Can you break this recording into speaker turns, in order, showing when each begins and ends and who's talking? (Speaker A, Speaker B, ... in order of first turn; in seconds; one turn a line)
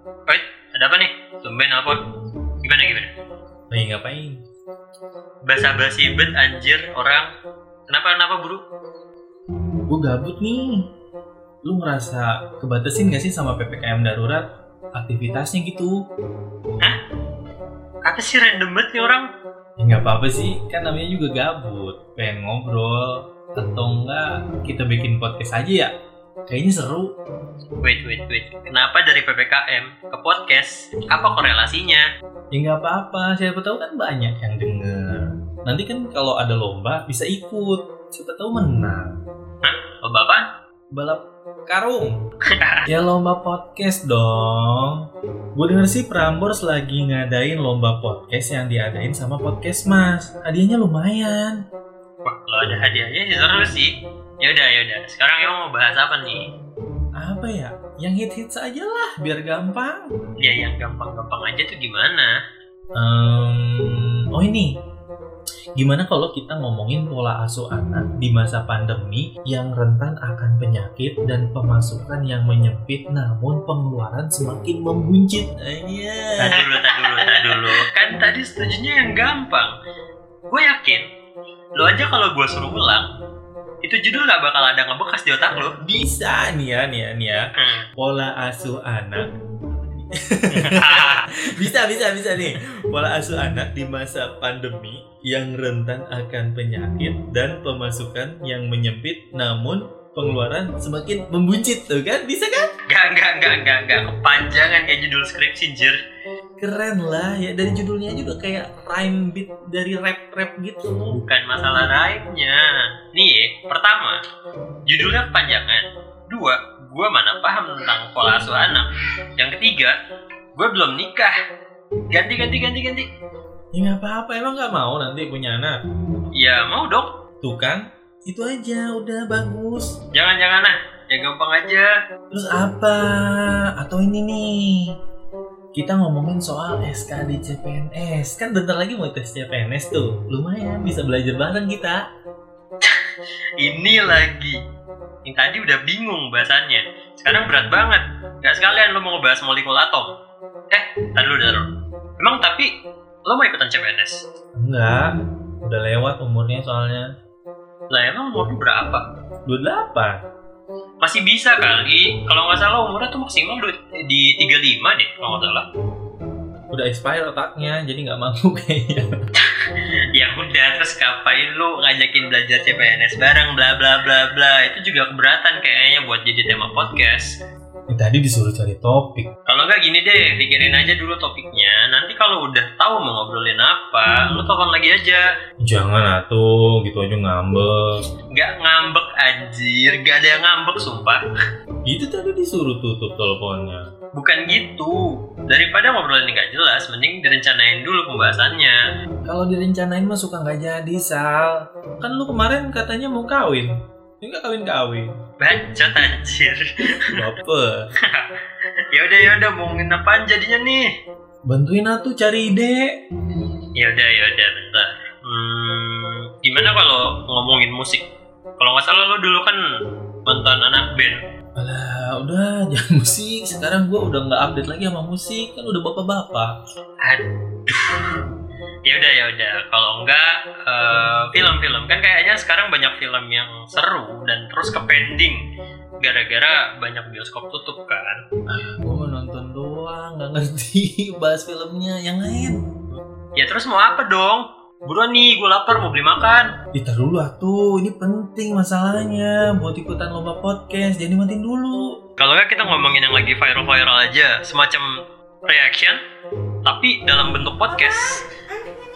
Speaker A: 0.3-2.0
Speaker A: 2.6-3.1
Speaker B: 3.7-4.4
Speaker A: 5.5-7.3
Speaker A: 7.9-8.6
Speaker B: 9.9-10.9
Speaker B: 11.6-14.4
Speaker B: 14.9-16.0
Speaker A: 18.1-19.3
Speaker B: 19.8-25.9
Speaker B: 26.5-27.1
Speaker A: 27.8-32.0
Speaker B: 32.5-39.1
Speaker A: 39.6-40.5
Speaker B: 40.9-42.2
Speaker A: 42.6-42.8
Speaker B: 42.9-45.0
Speaker B: 45.6-51.6
Speaker A: 52.2-53.9
Speaker A: 54.4-56.4
Speaker B: 57.2-60.1
Speaker A: 60.4-62.3
Speaker B: 63.0-64.7
Speaker B: 65.8-77.8
Speaker A: 76.4-79.7
Speaker A: 80.5-81.0
Speaker A: 81.8-83.1
Speaker A: 83.8-85.8
Speaker B: 85.8-102.7
Speaker A: 87.6-87.9
Speaker A: 90.5-91.4
Speaker A: 102.9-106.0
Speaker B: 106.6-111.2
Speaker A: 111.1-114.2
Speaker A: 114.9-118.9
Speaker A: 119.4-120.0
Speaker A: 120.6-121.3
Speaker A: 122.1-123.1
Speaker B: 123.7-125.8
Speaker A: 126.3-127.1
Speaker B: 127.4-130.0
Speaker A: 130.1-131.9
Speaker B: 132.3-135.0
Speaker B: 135.7-142.0
Speaker A: 143.6-144.6
Speaker A: 145.2-150.1
Speaker A: 150.7-151.7
Speaker A: 152.2-152.7
Speaker A: 153.2-154.2
Speaker B: 154.6-155.1
Speaker B: 155.6-157.1
Speaker A: 157.9-159.1
Speaker B: 159.5-160.2
Speaker A: 161.0-165.7
Speaker B: 166.7-169.1
Speaker A: 170.1-177.3
Speaker B: 177.9-179.3
Speaker A: 179.5-185.2
Speaker B: 185.6-188.0
Speaker A: 188.3-191.2
Speaker B: 191.9-193.8
Speaker A: 194.1-198.8
Speaker B: 199.3-205.1
Speaker A: 205.4-207.1
Speaker B: 207.1-207.9
Speaker A: 208.9-210.9
Speaker B: 211.5-213.0
Speaker A: 213.8-218.1
Speaker A: 218.6-219.6
Speaker A: 220.3-221.2
Speaker B: 221.6-226.5
Speaker A: 227.0-228.2
Speaker A: 228.8-235.4
Speaker A: 236.0-238.2
Speaker B: 238.5-242.6
Speaker A: 243.4-246.5
Speaker B: 246.7-251.8
Speaker A: 252.2-254.9
Speaker A: 255.5-256.0
Speaker A: 256.6-258.3